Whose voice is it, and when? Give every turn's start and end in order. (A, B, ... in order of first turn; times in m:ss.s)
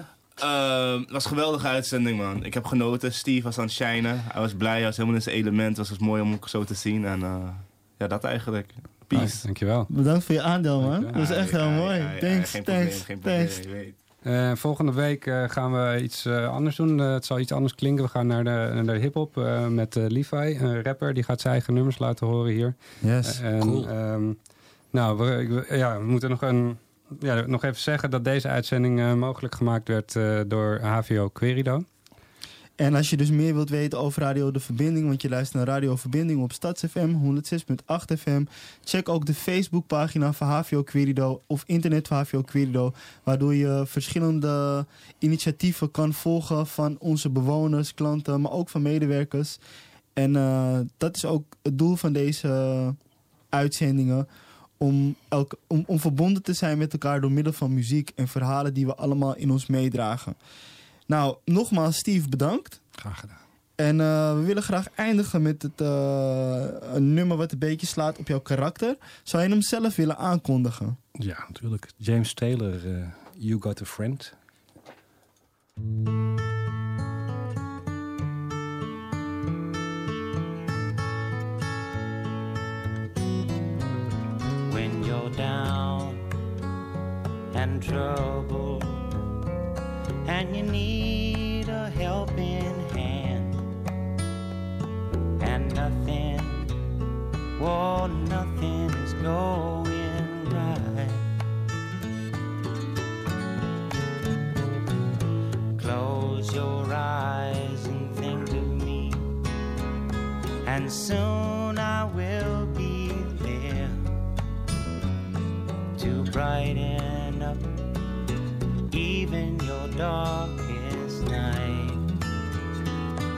0:00.4-0:09.4 A
0:09.1-0:09.9 B
0:09.9-0:13.6 C
0:10.8-0:11.2 B
0:11.1-0:13.9 A
0:14.2-0:24.4 B
0:23.0-0:23.4 C
0:23.6-0:23.9 D
0:24.9-0:31.8 B
0:32.8-0:49.6 C
0:50.2-0:53.0 C
0:53.5-0:54.3 C
0:54.8-1:00.4 C
1:01.1-1:02.8 C
1:03.0-1:03.4 D
1:03.8-1:11.0 C
1:11.2-1:14.4 D
1:24.6-1:26.2 E
1:27.5-1:29.0 E
1:30.2-1:33.6 E
1:35.4-1:36.7 E
1:37.6-1:41.2 E
1:45.8-1:49.2 E
1:50.6-1:54.1 E
1:56.0-1:57.6 E
1:58.9-2:02.0 E